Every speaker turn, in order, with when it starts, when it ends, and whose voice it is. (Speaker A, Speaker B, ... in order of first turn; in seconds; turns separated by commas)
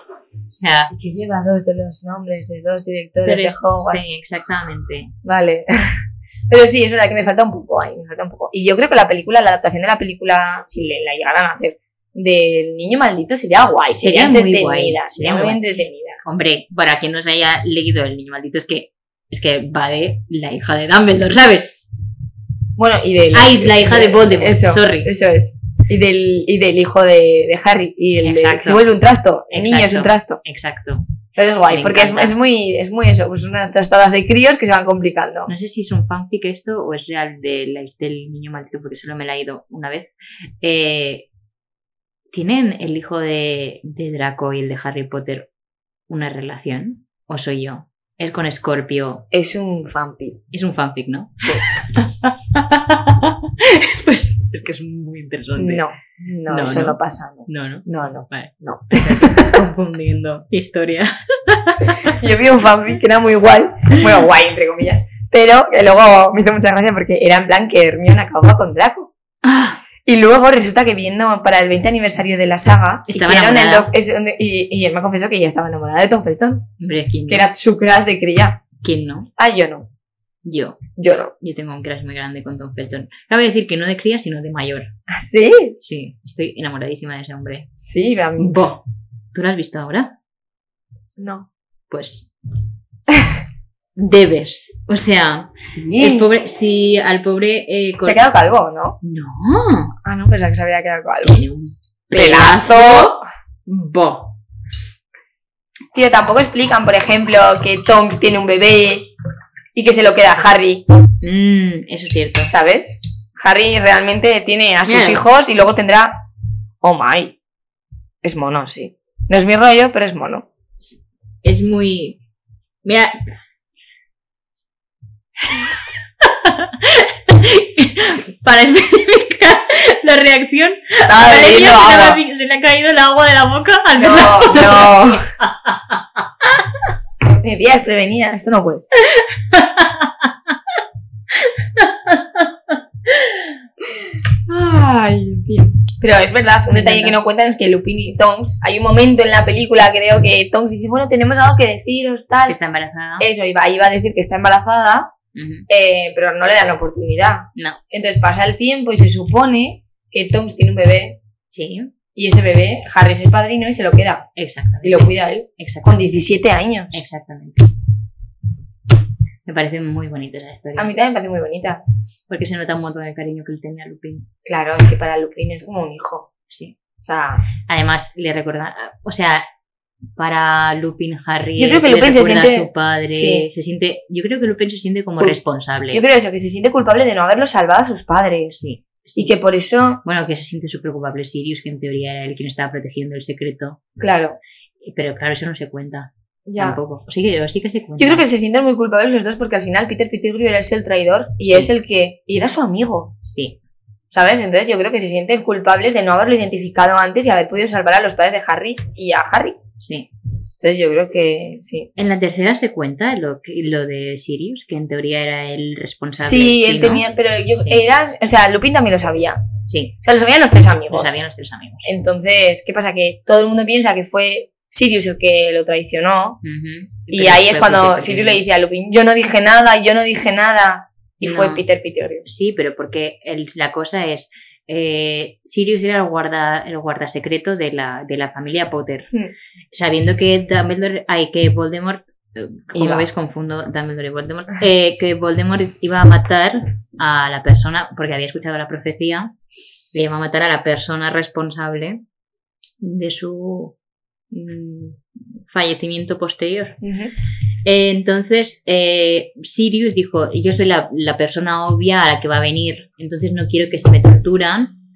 Speaker A: 0.5-0.9, Speaker B: 0.9-4.1, Speaker A: 3.2-5.1, Speaker B: 5.2-16.2, Speaker A: 14.0-15.6, Speaker A: 16.2-21.8, Speaker B: 22.8-30.4, Speaker A: 23.3-25.1, Speaker A: 28.2-28.9, Speaker A: 29.5-31.0, Speaker B: 31.4-35.5, Speaker A: 31.7-32.4, Speaker A: 35.5-41.3, Speaker A: 42.3-45.5, Speaker A: 46.1-49.3, Speaker B: 49.3-50.4, Speaker A: 50.5-55.8, Speaker B: 55.6-59.7, Speaker A: 56.5-62.2, Speaker B: 62.0-69.1, Speaker A: 69.4-69.8, Speaker B: 70.0-76.7, Speaker A: 73.1-73.9, Speaker A: 76.8-77.5, Speaker B: 77.3-78.6, Speaker A: 78.8-79.3, Speaker B: 79.4-79.9, Speaker A: 80.5-84.9, Speaker B: 81.0-81.3, Speaker B: 85.1-85.8, Speaker A: 85.8-87.7, Speaker B: 87.8-88.8, Speaker A: 88.4-88.8, Speaker A: 89.3-90.2, Speaker B: 91.2-91.5, Speaker A: 91.9-92.3, Speaker A: 94.0-98.2, Speaker B: 95.6-96.3, Speaker B: 98.0-99.0, Speaker A: 99.0-100.0, Speaker B: 100.0-101.4, Speaker A: 101.2-104.4, Speaker B: 102.1-103.2, Speaker B: 105.9-109.1, Speaker B: 109.8-110.9, Speaker A: 111.2-112.5, Speaker B: 112.5-116.2, Speaker A: 114.9-115.2, Speaker B: 116.8-117.4, Speaker B: 118.2-120.5, Speaker A: 120.8-122.2, Speaker A: 122.8-123.2, Speaker A: 126.2-136.6, Speaker B: 131.1-132.2, Speaker B: 134.0-135.3, Speaker B: 137.2-138.9, Speaker A: 139.0-140.5, Speaker A: 141.4-143.5, Speaker B: 144.5-152.6, Speaker A: 146.7-147.2, Speaker A: 152.5-153.3, Speaker B: 153.2-155.1, Speaker A: 155.3-155.7, Speaker B: 155.7-161.2, Speaker A: 161.5-161.9, Speaker B: 162.2-164.3, Speaker A: 164.4-166.1, Speaker B: 164.8-167.0, Speaker A: 166.9-167.7, Speaker A: 169.5-170.9, Speaker B: 170.8-171.8, Speaker A: 172.3-174.3, Speaker B: 174.4-176.3, Speaker A: 176.5-176.8, Speaker B: 177.0-177.4, Speaker A: 177.7-179.4, Speaker A: 180.2-186.0, Speaker B: 181.6-183.5, Speaker B: 185.9-188.6, Speaker A: 188.5-189.3, Speaker B: 189.2-190.0, Speaker A: 190.0-193.8, Speaker B: 194.0-194.4, Speaker A: 194.8-198.2, Speaker B: 196.5-196.8, Speaker B: 198.0-203.2, Speaker A: 203.2-203.6, Speaker B: 204.1-209.6, Speaker A: 209.8-210.1, Speaker B: 210.6-211.9, Speaker A: 212.0-217.8, Speaker B: 216.2-219.4, Speaker A: 219.7-220.0, Speaker B: 220.0-221.2, Speaker A: 220.9-221.9, Speaker B: 221.8-226.4, Speaker A: 226.4-228.4, Speaker B: 227.1-232.2, Speaker A: 231.2-231.7, Speaker A: 232.3-239.1, Speaker A: 239.7-249.3, Speaker B: 242.8-243.1, Speaker A: 249.9-252.0, Speaker A: 252.8-253.8, Speaker A: 254.3-256.8, Speaker B: 256.8-257.1, Speaker A: 257.6-264.7